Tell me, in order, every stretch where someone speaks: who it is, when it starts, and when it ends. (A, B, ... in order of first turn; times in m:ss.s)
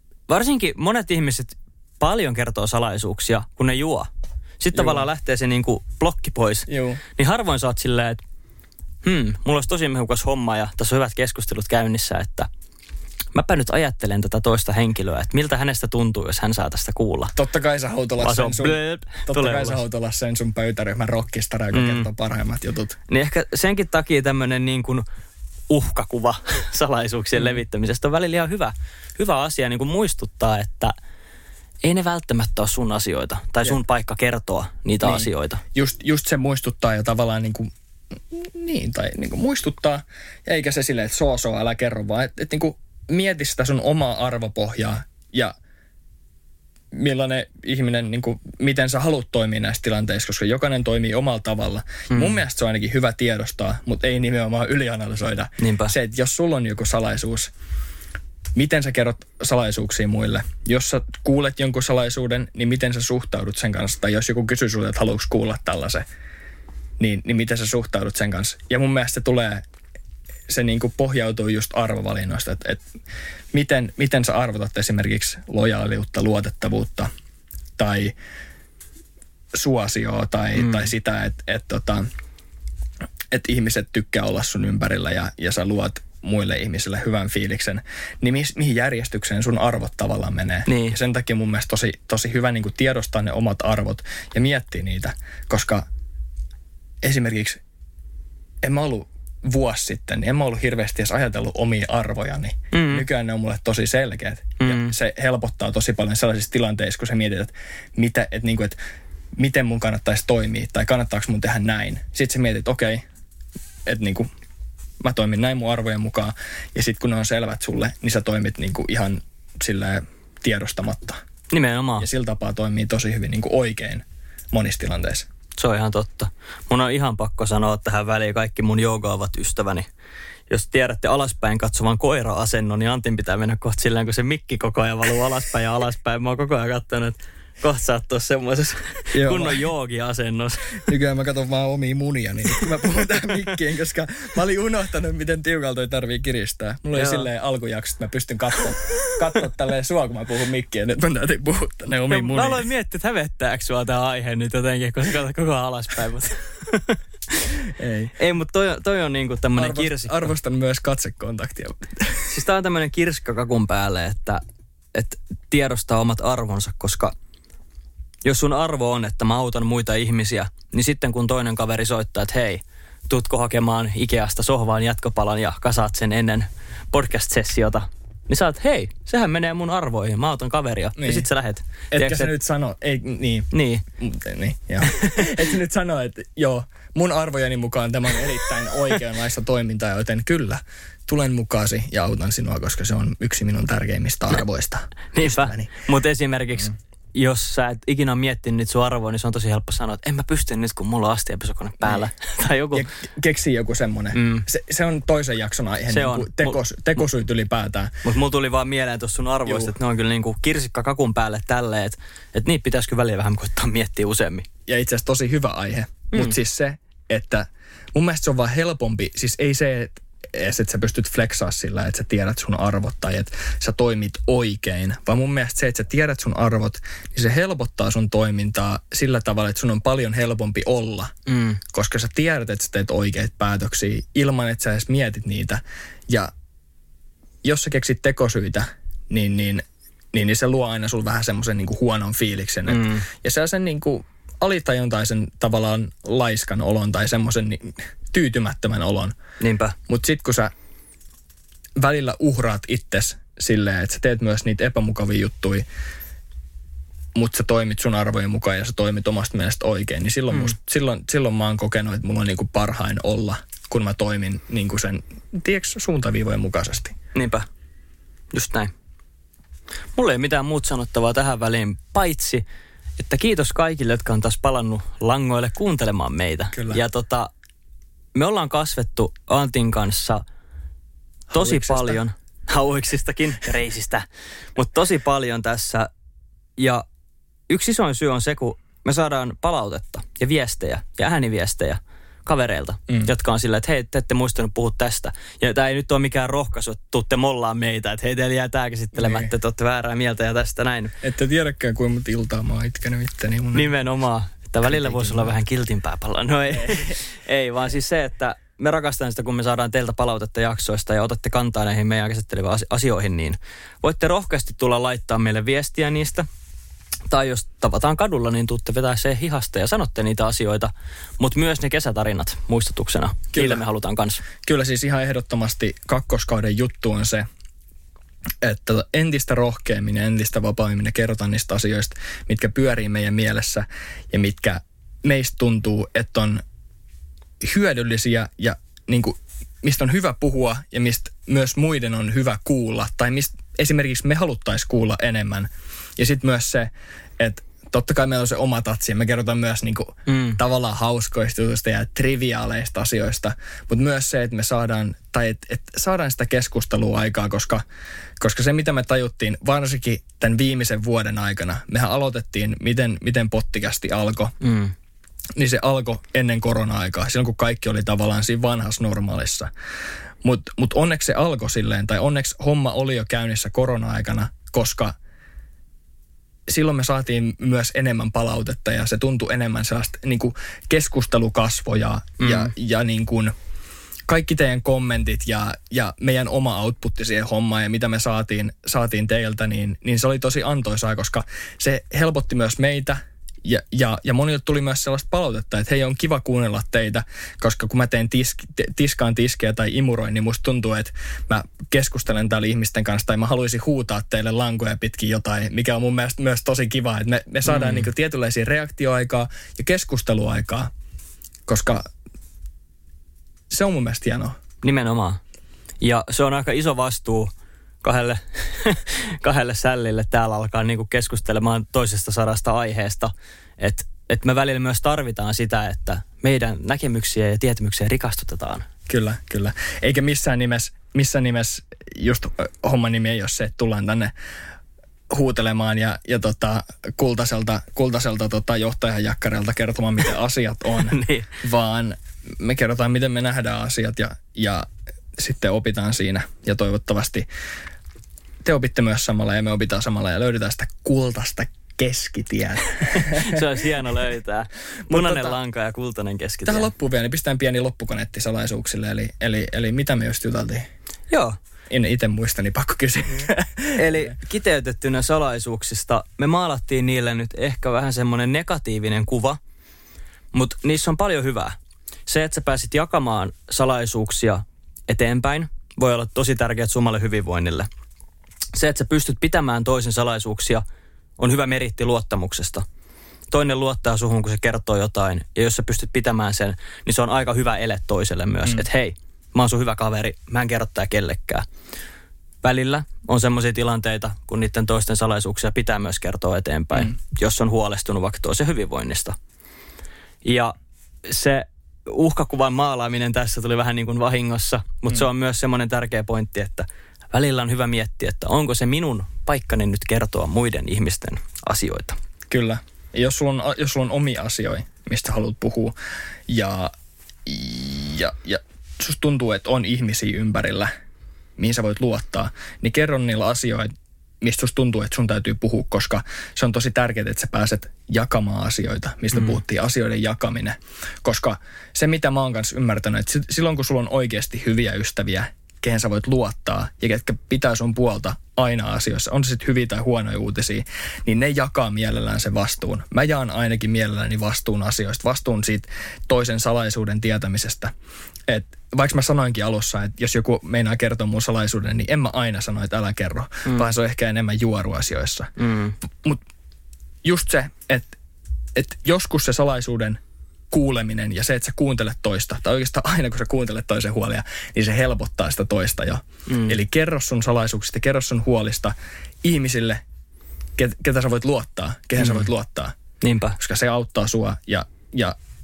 0:00.3-0:04.1 A
0:04.6-0:08.2 A
0:04.7-0:05.1 B
0:06.7-0:07.0 B
0:09.0-0:12.5 A
0:13.3-0:17.3 A
0:17.3-0:23.0 B
0:18.2-0:19.8 A
0:21.7-0:22.1 A
0:23.1-0:25.0 A
0:25.7-0:30.9 A
0:31.8-0:35.6 A
0:35.0-0:37.7 B
0:38.3-0:45.5 B
0:46.9-0:57.5 B
0:52.1-0:52.4 A
0:55.6-0:55.9 A
0:58.5-1:06.0 B
1:07.0-1:09.6 B
1:10.5-1:12.8 B
1:13.5-1:17.1 B
1:17.8-1:18.1 B
1:19.5-1:22.1 B
1:20.6-1:20.9 A
1:23.3-1:35.8 B
1:30.7-1:31.0 A
1:37.0-1:37.6 B
1:38.6-1:48.8 B
1:42.7-1:43.0 A
1:44.6-1:44.9 A
1:49.4-1:53.0 B
1:53.8-1:54.3 B
1:55.0-2:01.2 B
2:01.5-2:02.1 A
2:02.0-2:05.3 B
2:05.6-2:09.9 A
2:10.5-2:20.8 A
2:19.1-2:19.6 B
2:20.8-2:32.6 B
2:26.9-2:27.3 A
2:32.1-2:37.5 A
2:37.7-2:38.1 B
2:38.2-2:40.3 A
2:39.6-2:42.3 B
2:42.3-2:44.4 A
2:44.9-2:47.1 A
2:48.2-3:02.3 A
3:01.0-3:01.3 B
3:01.9-3:03.5 B
3:03.5-3:03.8 A
3:04.0-3:15.7 B
3:04.8-3:05.3 A
3:15.1-3:22.8 A
3:22.7-3:28.0 B
3:24.1-3:24.4 A
3:25.9-3:26.6 A
3:28.0-3:34.4 A
3:29.4-3:29.7 B
3:34.7-3:51.1 B
3:51.2-3:51.6 A
3:51.7-3:56.3 B
3:57.4-4:09.1 B
4:02.7-4:03.1 A
4:09.4-4:09.8 A
4:09.9-4:10.5 B
4:11.8-4:15.6 B
4:17.1-4:27.0 B
4:27.1-4:27.4 A
4:28.3-4:28.7 A
4:30.0-4:32.4 A
4:33.0-4:37.3 A
4:36.5-4:36.8 B
4:38.1-4:40.2 A
4:41.3-4:42.0 B
4:41.3-4:45.9 A
4:46.6-4:46.8 A
4:47.5-5:00.9 A
4:59.0-4:59.3 B
5:01.0-5:03.7 B
5:03.5-5:16.3 A
5:04.6-5:05.3 B
5:06.5-5:07.0 B
5:17.1-5:24.2 A
5:23.3-5:23.6 B
5:24.4-5:27.2 B
5:28.4-5:36.4 B
5:37.4-5:57.6 B
5:50.1-5:50.4 A
5:58.2-6:04.3 B
6:04.4-6:04.7 A
6:05.4-6:09.5 B
6:10.2-6:14.9 B
6:16.5-6:23.3 B
6:22.2-6:22.5 A
6:24.1-6:50.7 B
6:47.4-6:47.9 A
6:51.4-6:51.9 B
6:53.5-6:54.4 B
6:54.6-6:55.2 A
6:55.8-6:57.3 A
6:57.8-7:08.7 A
7:08.9-7:14.1 B
7:15.1-7:27.2 B
7:20.9-7:21.3 A
7:28.4-7:33.4 B
7:32.9-7:36.7 A
7:34.9-7:35.4 B
7:36.4-7:40.7 B
7:41.1-7:41.4 A
7:41.7-7:44.1 B
7:43.7-7:49.4 A
7:50.3-7:57.7 A
7:58.5-8:00.6 A
8:01.2-8:02.6 A
8:03.3-8:11.4 A
8:12.4-8:19.2 A
8:20.2-8:20.5 A
8:21.0-8:32.0 A
8:32.3-8:35.7 B
8:36.3-8:36.7 B
8:37.2-8:40.7 B
8:41.4-9:07.7 B
9:08.3-9:15.3 B
9:15.4-9:15.8 A
9:15.9-9:16.2 B
9:17.0-9:17.9 B
9:18.5-9:20.0 B
9:20.5-9:29.8 B
9:26.3-9:26.6 A
9:30.6-9:32.7 B
9:32.0-9:32.2 A
9:33.0-9:33.4 A
9:33.4-9:35.2 B